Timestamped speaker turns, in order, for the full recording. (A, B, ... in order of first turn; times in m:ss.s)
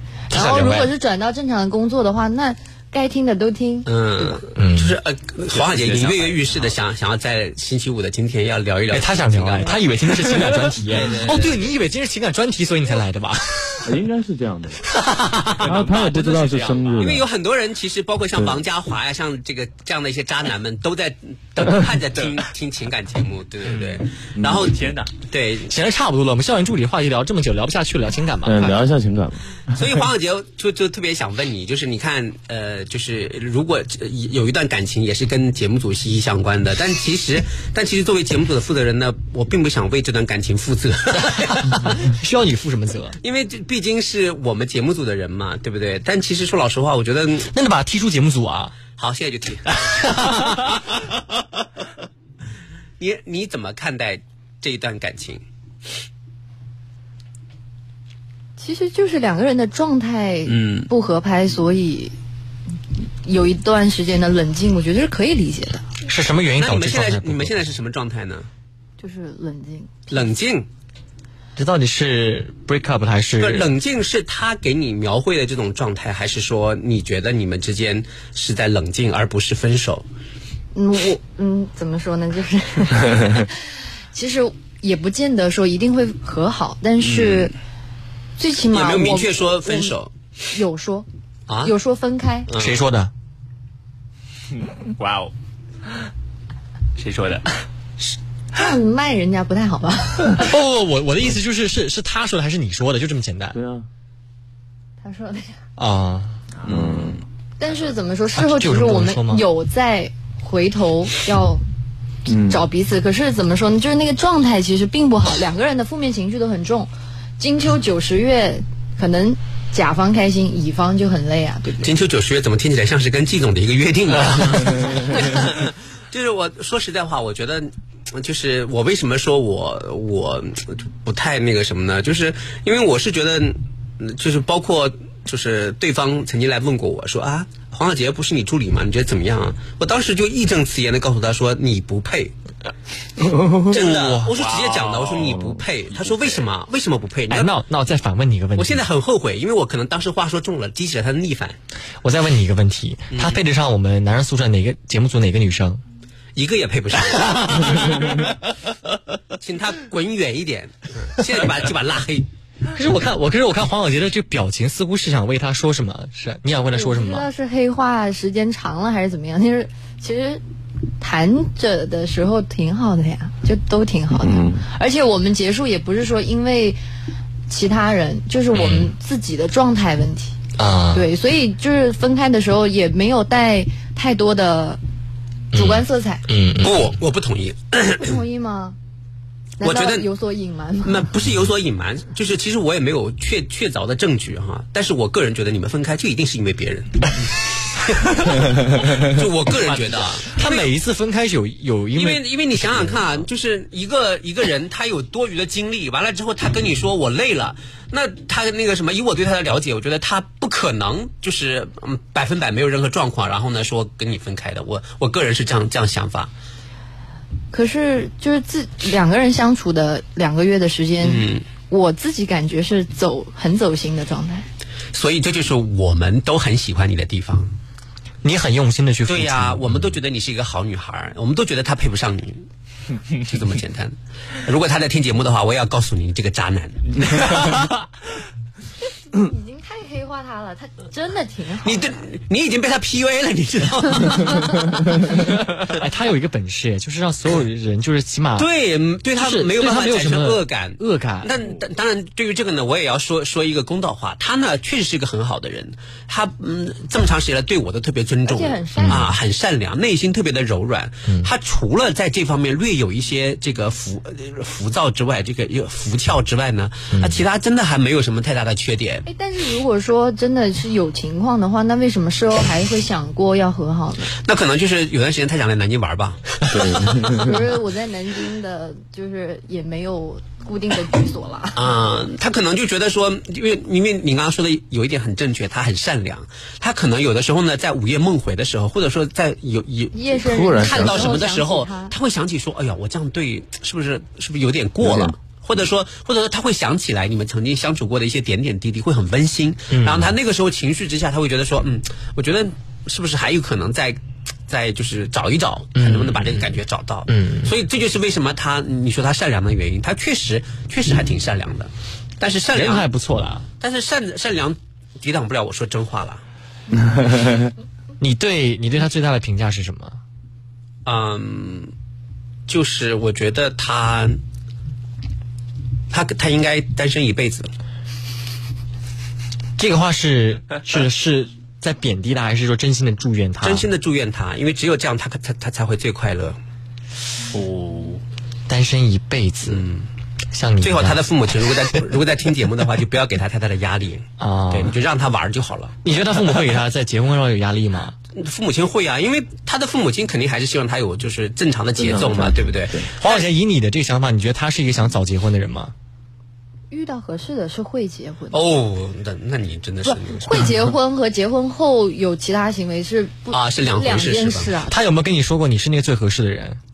0:00.3-0:00.9 A
0:00.3-0:04.2 B
0:03.9-0:09.8 C
0:04.6-0:05.0 A
0:05.5-0:06.7 D
0:08.9-0:13.9 A
0:10.5-0:11.2 D
0:10.9-0:11.7 C
0:13.8-0:14.8 E
0:15.5-0:17.2 D
0:15.6-0:17.3 E
0:17.0-0:24.8 C
0:18.4-0:18.6 E
0:24.4-0:25.1 D
0:25.3-0:25.7 C
0:25.7-0:28.8 A
0:28.4-0:29.4 E
0:29.7-0:41.9 C
0:41.8-0:43.2 A
0:43.2-0:47.5 C
0:47.5-0:48.8 A
0:49.0-0:49.8 C
0:49.8-0:50.6 A
0:53.0-0:55.4 C
0:58.6-1:02.2 B
1:00.5-1:00.9 C
1:03.2-1:05.8 B
1:06.0-1:07.6 A
1:06.6-1:08.5 C
1:09.0-1:10.2 B
1:10.1-1:10.7 C
1:11.6-1:13.7 A
1:13.4-1:20.1 C
1:20.7-1:23.6 B
1:24.1-1:27.5 B
1:27.0-1:27.5 C
1:28.4-1:30.0 B
1:28.7-1:30.1 C
1:30.5-1:31.1 B
1:31.5-1:31.7 C
1:31.6-1:32.5 B
1:32.5-1:32.8 C
1:32.5-1:33.1 A
1:34.6-1:35.3 D
1:37.0-1:37.6 D
1:38.5-1:40.5 B
1:40.3-1:43.6 A
1:43.5-1:43.9 E
1:45.0-1:45.6 B
1:45.8-1:46.4 A
1:46.6-1:46.9 D
1:46.6-1:47.2 E
1:47.6-1:51.6 B
1:48.4-1:49.4 A
1:52.3-1:52.6 E
1:52.3-2:01.9 B
2:01.8-2:22.3 C
2:23.7-2:27.5 C
2:23.7-2:24.3 A
2:24.4-2:26.4 D
2:27.3-2:28.8 A
2:28.6-2:31.6 C
2:32.0-2:35.8 A
2:33.1-2:33.4 C
2:36.4-2:38.2 C
2:39.4-2:42.3 C
2:42.7-2:47.3 A
2:46.7-2:50.4 B
2:51.0-2:56.8 B
2:54.1-2:54.6 E
2:57.5-3:00.4 B
2:58.5-2:58.9 A
3:00.6-3:01.1 A
3:00.9-3:04.8 B
3:05.5-3:07.0 A
3:05.5-3:06.2 B
3:06.6-3:08.2 C
3:08.0-3:08.8 B
3:09.6-3:11.0 B
3:09.6-3:10.1 C
3:10.8-3:17.1 C
3:17.7-3:20.7 C
3:19.7-3:20.2 D
3:20.3-3:23.3 A
3:22.0-3:36.3 C
3:37.5-3:44.5 B
3:41.0-3:41.4 C
3:44.9-3:47.5 C
3:48.2-3:49.8 A
3:49.1-3:52.4 C
3:53.2-3:57.7 C
3:59.1-4:02.0 B
4:01.6-4:04.5 C
4:05.7-4:08.5 A
4:08.4-4:29.0 C
4:09.2-4:11.3 A
4:18.3-4:19.1 B
4:18.8-4:19.2 A
4:26.9-4:27.2 A
4:29.1-4:34.1 B
4:34.2-4:36.2 C
4:36.5-4:37.4 E
4:37.2-4:41.7 B
4:41.6-4:50.0 C
4:49.9-4:51.9 B
4:50.2-4:51.2 E
4:50.5-5:12.8 C
4:54.8-4:55.1 E
4:59.7-5:00.1 A
5:05.8-5:06.5 A
5:07.1-5:07.5 A
5:12.5-5:13.4 A
5:13.6-5:16.2 C
5:18.0-5:20.0 A
5:20.8-5:21.7 C
5:22.5-5:24.2 C
5:25.9-5:27.5 C
5:29.6-5:33.7 A
5:33.4-5:36.4 C
5:37.3-5:38.0 D
5:38.5-5:39.7 A
5:39.5-5:39.9 C
5:40.3-5:41.1 A
5:40.6-5:45.8 C
5:44.2-5:44.8 A
5:45.8-5:48.0 A
5:48.2-5:53.3 C
5:51.8-5:52.9 E
5:53.0-5:55.7 A
5:56.7-5:58.4 B
5:58.3-6:00.5 C
5:59.9-6:04.8 B
6:03.3-6:04.6 C
6:04.7-6:06.6 A